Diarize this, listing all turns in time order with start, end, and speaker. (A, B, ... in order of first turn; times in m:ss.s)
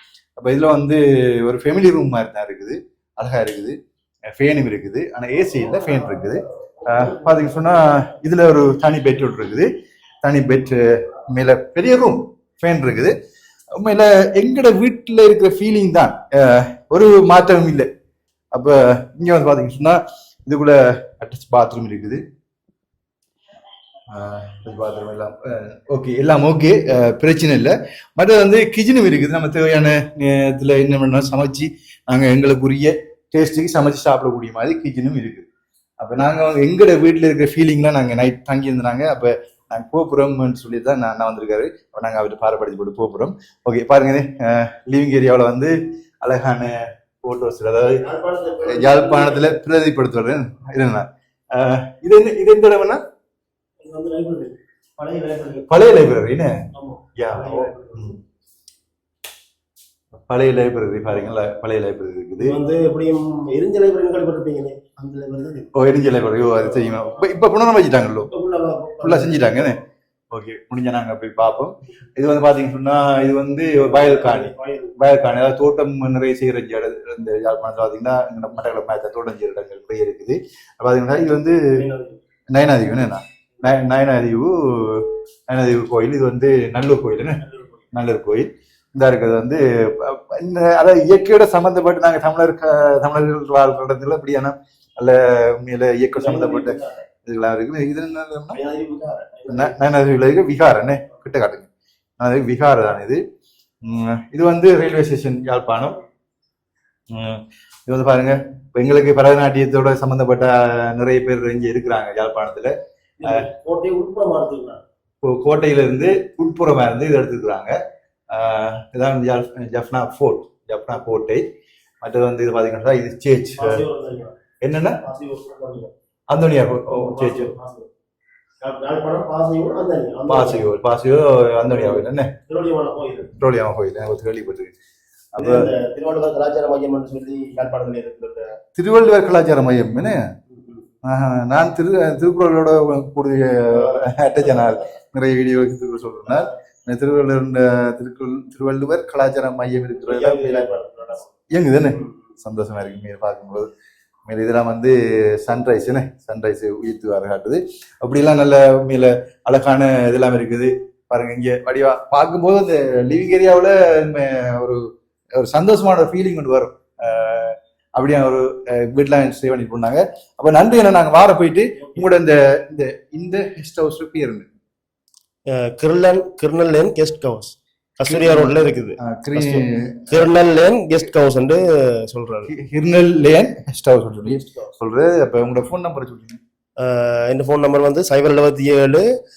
0:00.4-0:03.8 A
0:04.3-0:09.7 A
0:10.2-0:13.1 A
0:13.8-0:17.9 A
0:18.5-0:22.2 A
0:24.1-0:35.4 A
0:36.0-0:48.0 A
0:48.0-0:49.6 B
0:48.6-0:53.0 A
0:53.8-0:55.7 B
0:55.7-0:56.5 A
0:56.7-0:58.1 B
0:57.2-0:58.2 A
1:00.3-1:02.6 A
1:02.4-1:05.7 B
1:05.7-1:08.3 A
1:06.6-1:07.3 B
1:08.3-1:09.5 B
1:09.0-1:09.8 A
1:10.3-1:21.8 A
1:13.8-1:14.9 B
1:21.7-1:22.2 B
1:22.5-1:27.4 A
1:27.4-1:27.8 B
1:27.9-1:38.6 A
1:36.1-1:37.0 B
1:38.5-1:39.8 B
1:39.5-1:41.7 A
1:42.2-1:43.2 A
1:43.8-1:46.0 A
1:47.1-1:53.4 A
1:53.2-1:54.8 B
1:55.2-1:57.8 A
1:58.3-2:01.4 A
2:02.0-2:03.8 A
2:03.6-2:04.4 B
2:04.6-2:05.0 A
2:05.0-2:05.9 B
2:06.3-2:07.5 A
2:06.9-2:07.9 B
2:08.6-2:10.7 B
2:10.3-2:12.3 A
2:11.7-2:13.3 B
2:13.4-2:14.7 A
2:15.3-2:15.7 A
2:15.4-2:18.5 B
2:18.8-2:20.2 A
2:20.5-2:20.8 B
2:21.0-2:30.8 A
2:23.7-2:24.8 B
2:30.0-2:31.3 B
2:31.5-2:33.7 A
2:34.3-2:44.8 A
2:45.4-2:54.5 A
2:55.5-3:02.5 B
2:58.1-3:00.3 A
3:02.5-3:06.4 A
3:04.3-3:04.6 B
3:06.8-3:09.0 B